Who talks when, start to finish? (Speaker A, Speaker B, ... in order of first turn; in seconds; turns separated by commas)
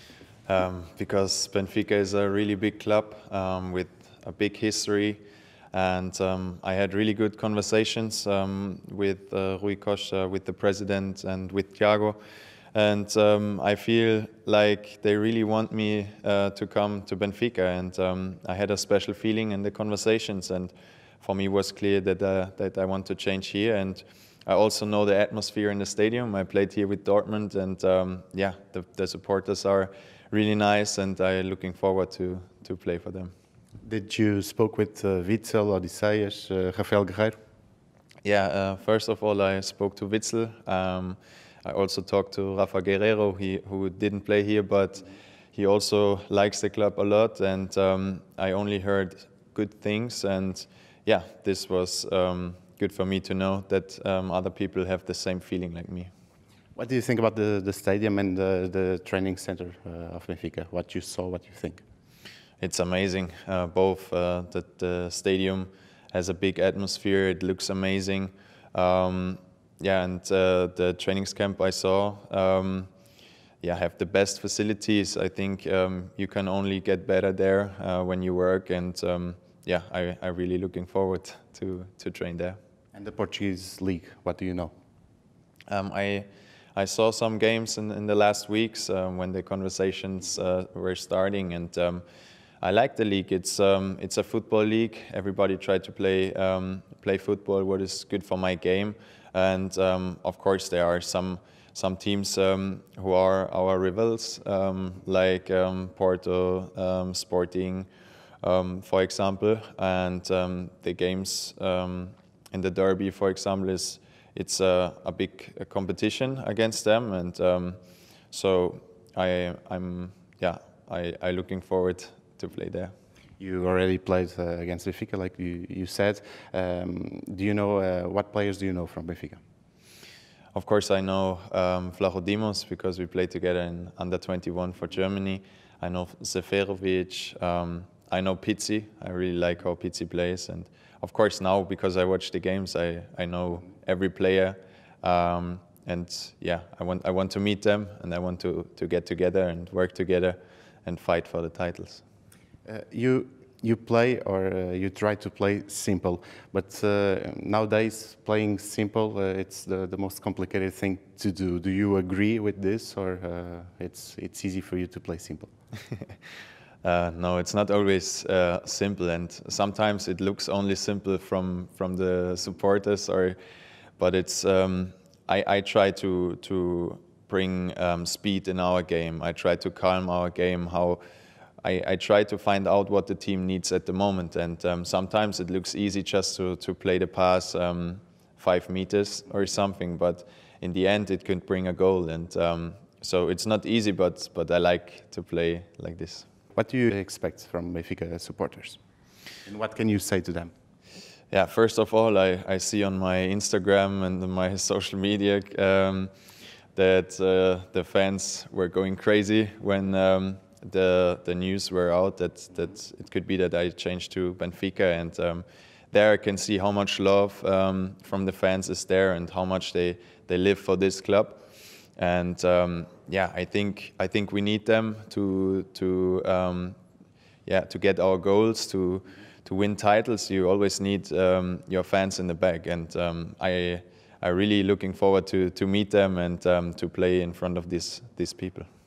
Speaker A: 0.5-5.2, Speaker A: 5.7-12.2, Speaker A: 12.7-33.3, Speaker B: 33.8-37.4, Speaker A: 38.2-56.1, Speaker B: 56.8-61.8, Speaker A: 62.6-72.9, Speaker A: 73.6-82.6, Speaker B: 82.9-84.7, Speaker A: 85.7-92.0, Speaker A: 92.6-107.9, Speaker A: 108.4-117.8, Speaker A: 118.3-122.9, Speaker B: 123.4-129.4, Speaker A: 130.5-152.0, Speaker B: 152.7-165.5, Speaker A: 166.8-173.4, Speaker A: 174.0-181.0, Speaker A: 181.6-196.3, Speaker B: 196.5-198.8, Speaker B: 199.4-200.5, Speaker A: 201.3-206.1, Speaker A: 206.7-221.4, Speaker A: 222.0-226.8, Speaker A: 227.4-238.7